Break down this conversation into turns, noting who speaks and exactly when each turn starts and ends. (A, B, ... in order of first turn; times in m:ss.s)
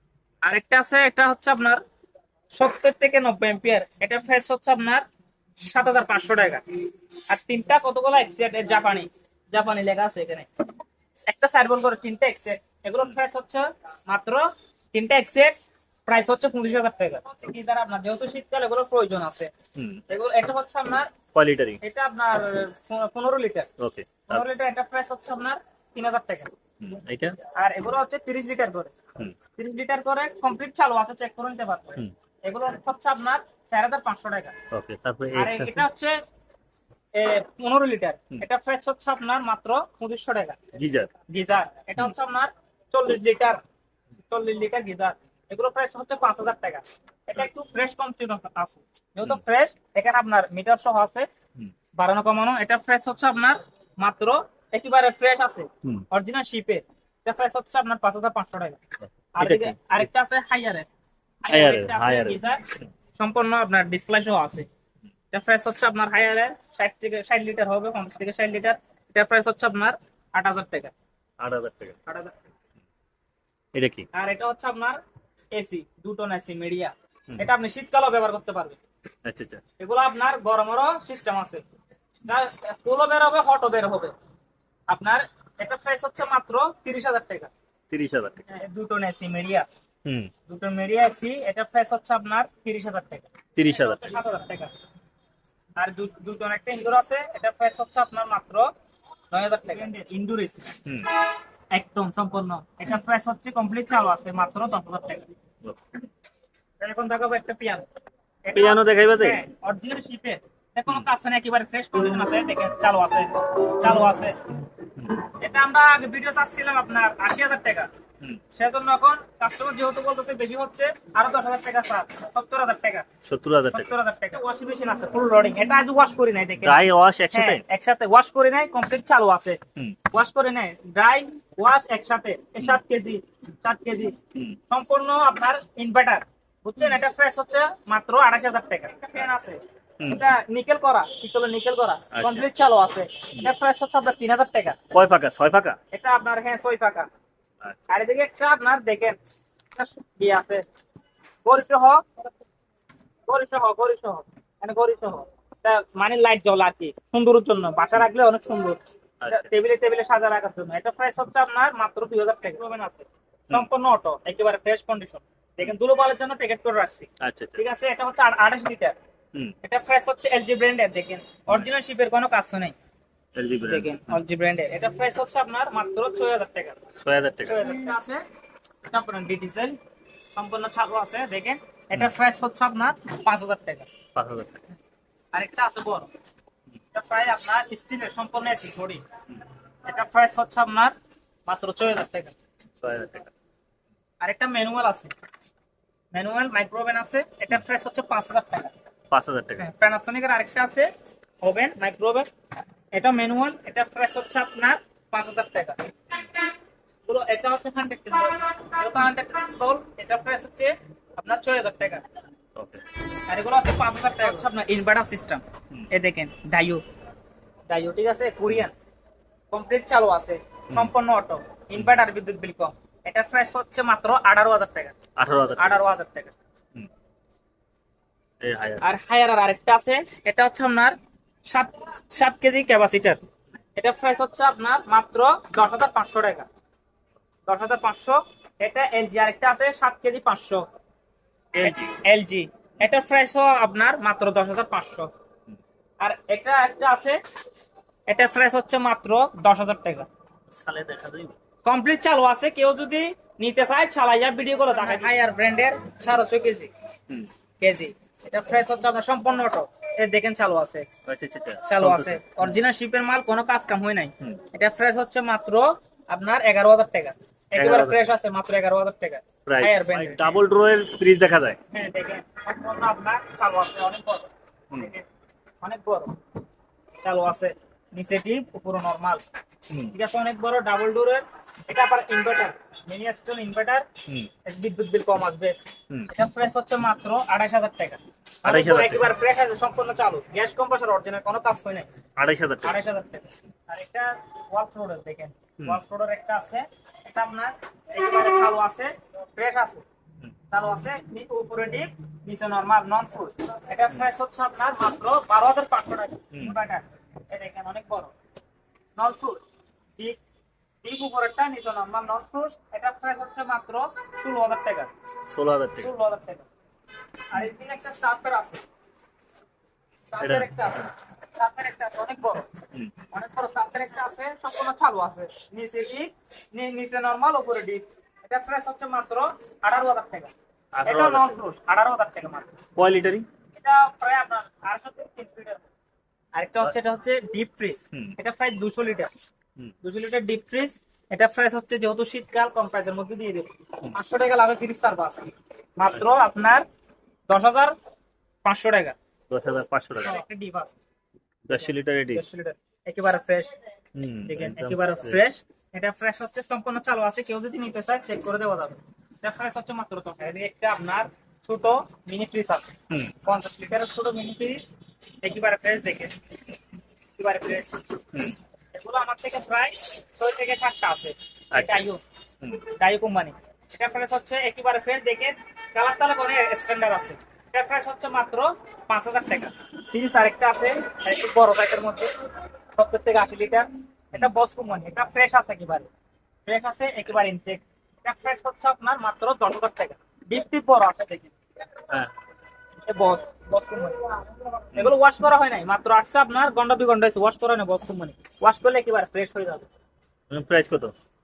0:00.4-0:01.8 A
0:02.5-0:05.0 A
0:05.6-0:06.6 A
0:07.3-0:10.5 A
0:11.2-0:19.5 A
0:19.8-0:20.0 B
0:20.1-0:21.1 A
0:21.3-0:21.8 B
0:21.8-0:23.7 A
0:23.8-0:24.4 B
0:24.3-0:26.5 A
0:26.8-0:27.4 B
0:27.5-0:28.9 A
0:29.6-0:34.5 A
0:34.7-0:35.8 B
0:35.3-0:36.2 A
0:37.1-0:40.6 A
0:40.7-0:41.1 B
0:41.3-0:43.6 A
0:44.3-0:51.3 A
0:52.0-0:58.8 A
0:59.4-1:00.9 A
0:59.4-0:59.8 B
1:01.4-1:02.6 A
1:01.5-1:02.8 B
1:03.2-1:04.7 A
1:05.3-1:10.9 A
1:11.4-1:12.0 B
1:12.1-1:12.3 A
1:13.7-1:14.0 B
1:14.1-1:15.0 A
1:15.5-1:18.8 A
1:19.2-1:19.6 B
1:19.8-1:21.6 A
1:22.2-1:24.1 A
1:24.9-1:27.5 A
1:27.9-1:28.4 B
1:28.5-1:29.7 A
1:30.0-1:30.3 B
1:30.5-1:34.7 A
1:33.6-1:34.1 B
1:35.8-1:38.7 A
1:39.3-1:40.7 A
1:41.7-1:45.2 A
1:46.8-1:47.8 A
1:48.4-1:54.4 A
1:48.5-1:49.4 B
1:55.4-1:57.9 A
1:58.6-2:03.0 A
2:03.2-2:03.9 B
2:03.7-2:09.6 A
2:06.6-2:07.6 B
2:10.1-2:14.2 A
2:14.7-2:24.8 A
2:22.1-2:22.5 B
2:24.9-2:25.8 B
2:25.9-2:27.1 A
2:27.6-2:27.9 B
2:27.9-2:29.2 A
2:29.7-2:30.6 A
2:31.4-2:32.1 A
2:33.3-2:48.9 A
2:39.2-2:39.5 B
2:47.2-2:47.6 B
2:49.6-2:52.7 A
2:53.4-2:54.2 B
2:53.6-2:56.8 A
2:57.0-2:57.6 B
2:57.4-2:58.2 A
2:58.9-2:59.8 A
3:00.3-3:03.9 A
3:04.1-3:04.6 B
3:05.3-3:06.1 A
3:06.9-3:09.0 A
3:09.8-3:10.9 A
3:11.5-3:12.3 A
3:12.8-3:13.3 B
3:14.2-3:15.1 A
3:16.1-3:18.7 A
3:19.1-3:19.6 B
3:19.6-3:20.9 A
3:21.4-3:22.3 A
3:22.9-3:25.8 A
3:27.0-3:32.0 A
3:32.5-3:32.8 B
3:33.3-3:36.8 A
3:37.7-3:38.7 A
3:39.5-3:44.9 A
3:45.2-3:45.8 B
3:45.6-3:46.3 A
3:48.4-3:48.8 B
3:48.8-3:51.0 A
3:51.5-3:53.2 A
3:53.8-3:56.5 A
3:57.5-4:00.6 A
4:01.6-4:02.0 B
4:01.6-4:05.1 A
4:06.0-4:07.2 A
4:08.1-4:10.1 A
4:10.5-4:11.4 B
4:11.6-4:16.7 A
4:17.6-4:20.9 A
4:21.1-4:22.6 B
4:21.6-4:30.4 A
4:27.5-4:28.0 B
4:29.4-4:31.6 B
4:31.7-4:35.0 A
4:35.6-4:36.1 A
4:37.0-4:39.2 A
4:39.9-4:43.8 A
4:44.4-4:45.6 A
4:46.1-4:51.9 A
4:48.4-4:49.1 B
4:52.2-4:52.8 B
4:52.6-4:59.8 A
5:00.5-5:08.1 A
5:09.0-5:09.4 A
5:10.8-5:14.9 A
5:15.3-5:15.9 B
5:15.8-5:16.5 A
5:17.3-5:18.6 A
5:20.1-5:22.5 A
5:20.2-5:20.9 B
5:23.1-5:30.3 A
5:30.8-5:31.4 B
5:30.8-5:32.5 A
5:32.8-5:33.2 B
5:33.6-5:35.7 A
5:36.3-5:39.1 A
5:39.8-5:46.6 A
5:47.3-5:47.7 A
5:48.4-5:48.9 A
5:49.3-5:50.2 B
5:50.0-5:50.8 A
5:51.5-5:52.2 B
5:51.5-5:53.5 A
5:53.9-5:55.2 B
5:54.3-6:04.7 A
6:05.2-6:06.1 A
6:07.2-6:07.8 A
6:08.7-6:12.0 A
6:11.5-6:11.8 B
6:12.8-6:22.1 A
6:22.8-6:25.9 A
6:26.4-6:31.3 A
6:32.8-6:34.0 A
6:34.7-6:39.7 A
6:40.3-6:40.9 B